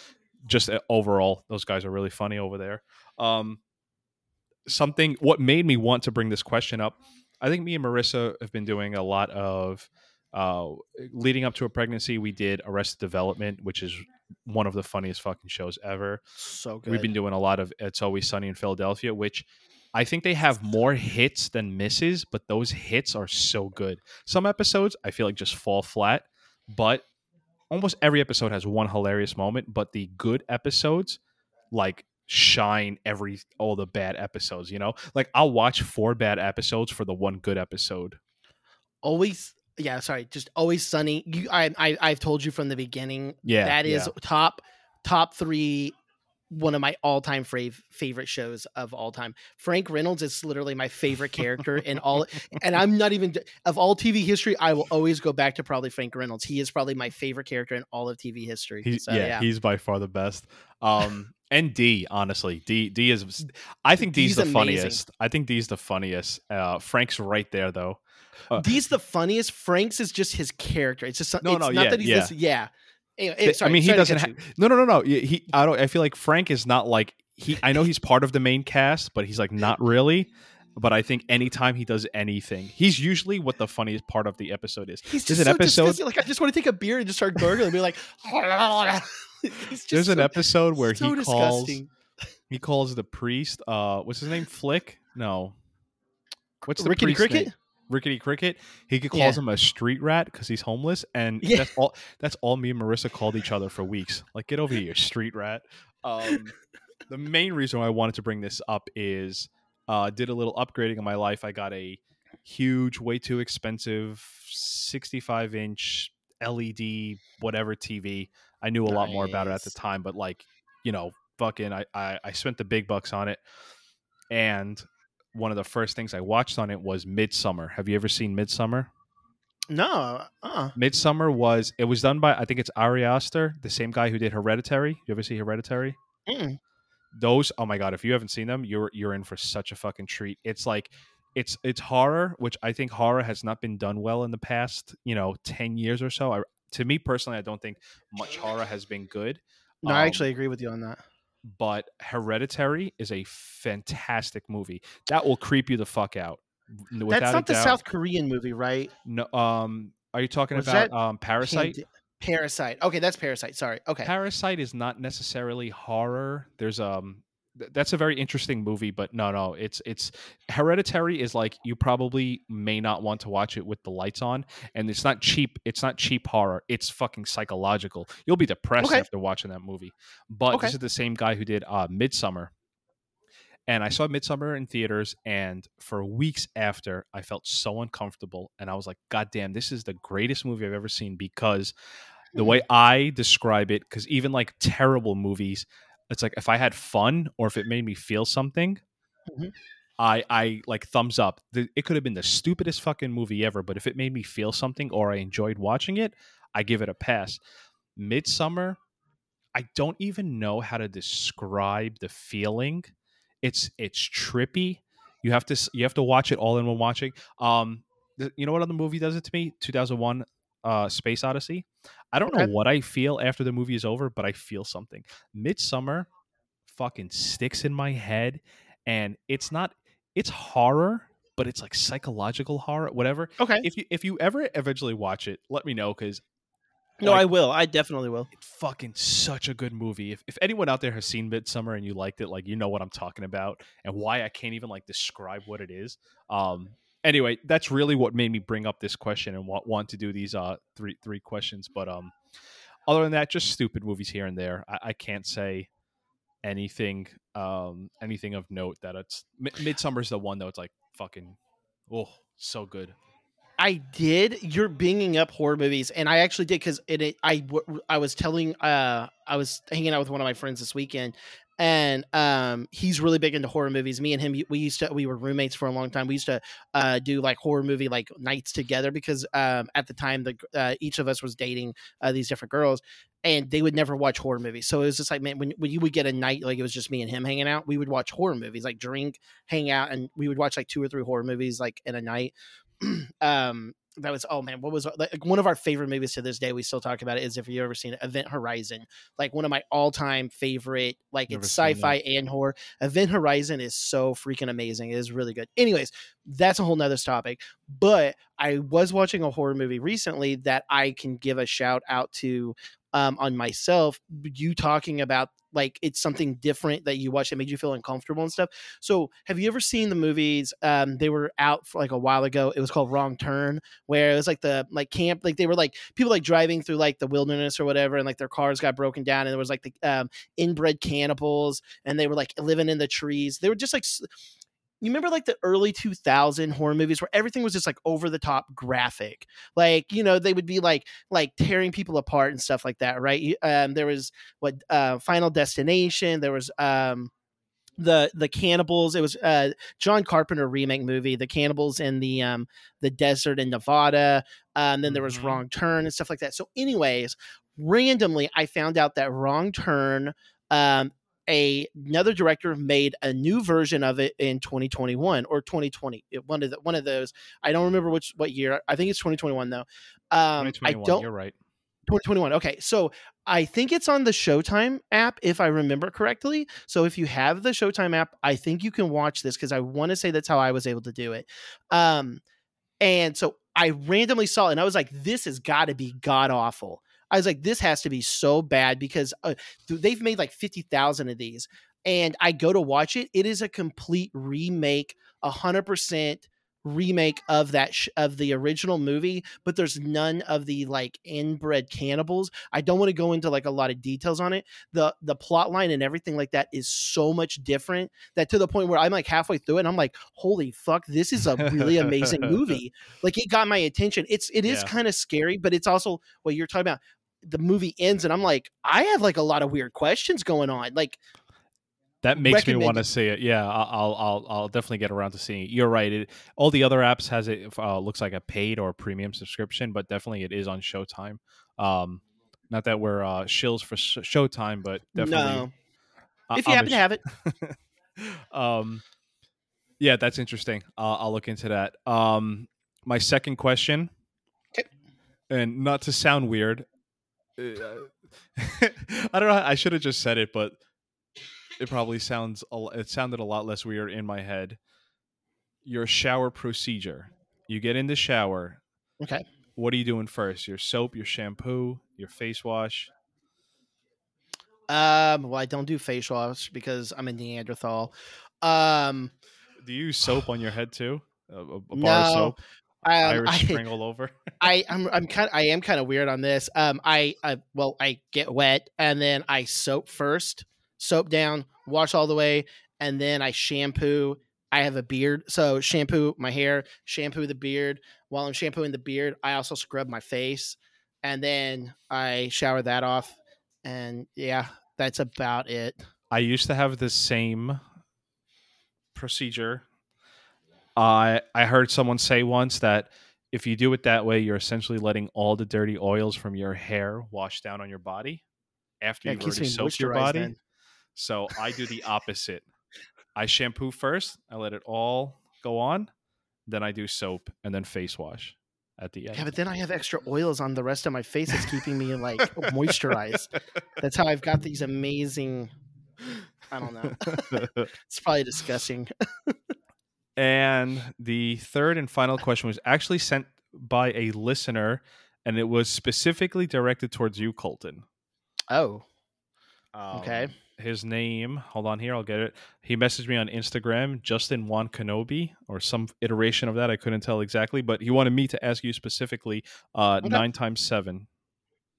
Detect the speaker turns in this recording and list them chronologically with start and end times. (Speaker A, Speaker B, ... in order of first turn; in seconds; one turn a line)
Speaker A: 0.4-3.6
Speaker A: 4.7-16.2
Speaker B: 16.4-17.1
Speaker A: 16.9-27.1
Speaker A: 27.7-31.2
Speaker A: 31.7-38.2
Speaker B: 39.0-45.9
Speaker A: 43.4-44.1
Speaker B: 46.5-59.5
Speaker A: 58.8-68.0
Speaker B: 64.0-65.0
Speaker A: 68.5-68.8
Speaker B: 68.5-74.4
Speaker A: 71.4-72.3
Speaker A: 73.4-86.0
Speaker B: 85.1-91.9
Speaker A: 89.9-91.8
Speaker A: 92.5-95.6
Speaker A: 96.6-106.5
Speaker B: 96.8-97.5
Speaker B: 99.1-99.4
Speaker B: 101.4-101.7
Speaker A: 107.1-123.4
Speaker B: 118.8-119.7
Speaker A: 124.3-128.9
Speaker B: 129.7-130.7
Speaker A: 130.8-136.0
Speaker B: 136.3-136.6
Speaker A: 137.1-150.3
Speaker B: 149.8-151.0
Speaker A: 151.4-157.8
Speaker B: 157.1-158.9
Speaker A: 159.0-161.8
Speaker B: 160.5-160.9
Speaker B: 161.4-164.1
Speaker A: 164.0-182.5
Speaker B: 178.8-179.0
Speaker A: 183.7-191.7
Speaker B: 192.4-192.6
Speaker A: 192.4-198.8
Speaker A: 200.0-207.4
Speaker A: 207.9-208.8
Speaker A: 209.5-226.1
Speaker A: 226.7-236.2
Speaker B: 233.4-233.7
Speaker B: 237.0-238.3
Speaker A: 238.4-252.1
Speaker A: 252.9-255.7
Speaker A: 256.4-262.9
Speaker B: 263.6-334.1
Speaker A: 301.3-302.0
Speaker B: 334.8-347.1
Speaker B: 347.8-371.1
Speaker A: 354.9-355.4
Speaker A: 370.4-371.3
Speaker B: 371.9-382.2
Speaker B: 382.8-421.0
Speaker A: 411.4-412.4
Speaker A: 414.4-414.7
Speaker A: 422.0-435.5
Speaker B: 422.1-422.8
Speaker B: 434.9-435.5
Speaker A: 436.3-438.8
Speaker B: 436.3-437.0
Speaker A: 439.8-443.9
Speaker A: 445.3-446.7
Speaker A: 447.4-450.6
Speaker A: 451.6-454.6
Speaker A: 455.6-458.6
Speaker A: 459.6-462.9
Speaker B: 464.7-469.1
Speaker A: 469.6-472.4
Speaker B: 471.8-473.6
Speaker A: 473.0-474.2
Speaker B: 474.4-495.8
Speaker A: 496.1-497.6
Speaker A: 498.9-499.6
Speaker A: 500.8-508.2
Speaker A: 508.8-510.3
Speaker B: 509.1-510.4
Speaker A: 510.9-512.4
Speaker A: 513.1-515.9
Speaker A: 516.5-519.3
Speaker B: 519.1-525.5
Speaker A: 522.4-522.7
Speaker B: 526.5-529.4
Speaker A: 527.1-527.7
Speaker A: 530.1-537.9
Speaker B: 538.5-538.9
Speaker A: 539.7-551.1
Speaker B: 539.9-540.3